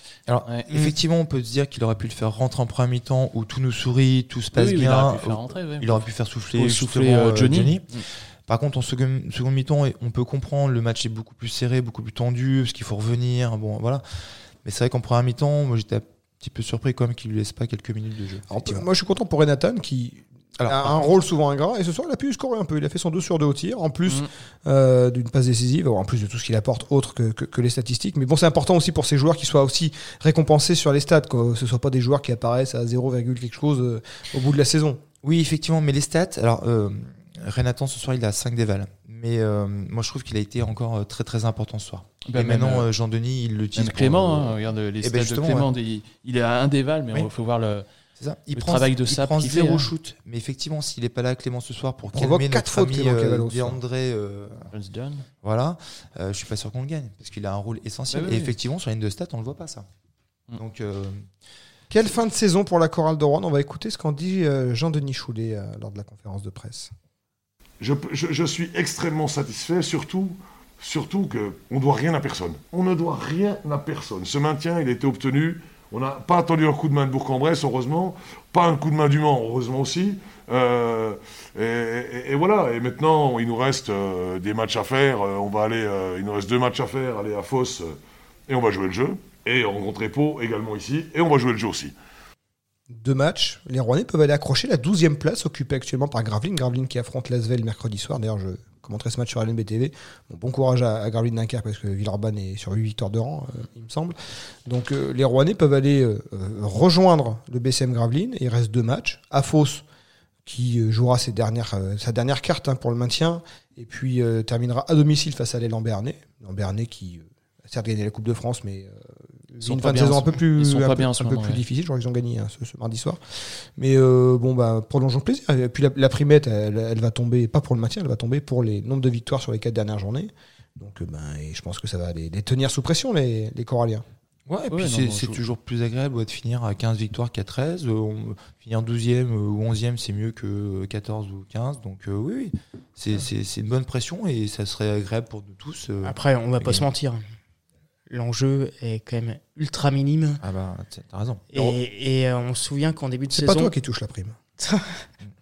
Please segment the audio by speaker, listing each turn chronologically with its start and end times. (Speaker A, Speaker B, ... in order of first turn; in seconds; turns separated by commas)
Speaker A: 0.3-14.0, Speaker B: 4.5-8.1, Speaker A: 14.6-18.9, Speaker C: 18.5-35.0, Speaker A: 20.6-21.1, Speaker A: 35.2-45.7, Speaker B: 42.2-42.9, Speaker B: 43.7-47.9, Speaker A: 48.2-54.7, Speaker B: 48.5-49.9, Speaker C: 52.1-53.8, Speaker B: 54.7-55.3, Speaker A: 55.4-59.9, Speaker B: 58.1-58.5, Speaker A: 60.5-61.3, Speaker C: 61.9-66.9, Speaker D: 67.8-88.0, Speaker D: 88.5-91.9, Speaker C: 92.9-109.8, Speaker C: 110.5-119.0, Speaker C: 119.5-123.2, Speaker B: 119.6-121.6, Speaker C: 123.8-134.0, Speaker A: 134.5-146.9, Speaker B: 134.7-135.4, Speaker E: 146.0-147.2, Speaker E: 148.1-150.4, Speaker A: 150.4-151.5, Speaker E: 151.5-153.7, Speaker C: 153.3-154.4, Speaker E: 154.6-155.0